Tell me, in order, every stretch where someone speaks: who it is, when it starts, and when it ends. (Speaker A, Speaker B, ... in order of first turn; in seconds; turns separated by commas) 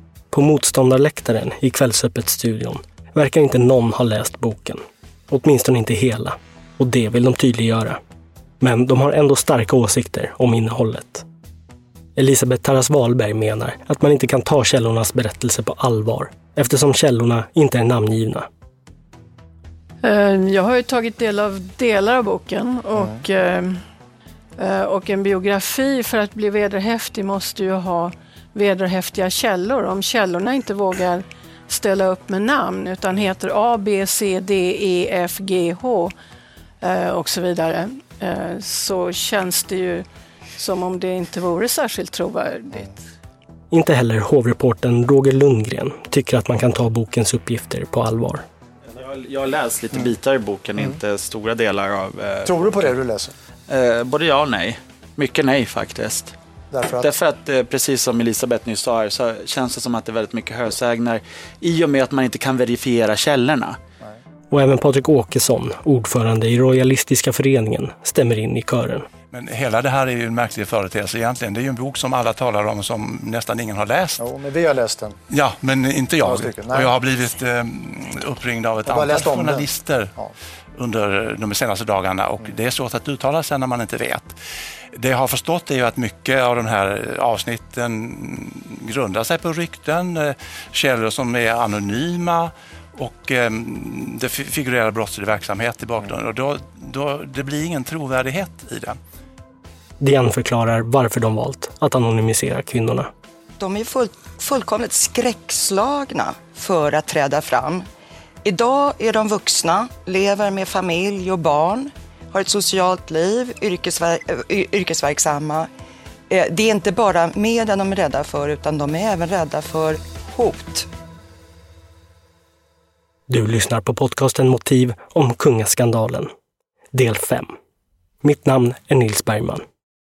Speaker A: 0.3-8.0, Speaker A: 8.6-11.2, Speaker A: 12.2-18.5, Speaker B: 20.0-23.8, Speaker B: 24.6-36.1, Speaker B: 36.8-43.0, Speaker A: 43.7-48.5, Speaker C: 48.9-53.0, Speaker D: 52.5-53.3, Speaker C: 53.7-56.4, Speaker D: 56.7-57.1, Speaker C: 56.9-63.8, Speaker A: 64.5-69.1, Speaker E: 69.3-74.2, Speaker D: 74.2-75.2, Speaker E: 75.3-80.2, Speaker D: 76.2-76.9, Speaker D: 78.9-80.3, Speaker E: 80.8-84.4, Speaker E: 84.9-99.0, Speaker A: 100.0-103.1, Speaker F: 103.6-107.9, Speaker F: 108.4-115.7, Speaker F: 116.3-120.9, Speaker A: 123.3-126.3, Speaker A: 126.9-127.5, Speaker A: 128.2-129.7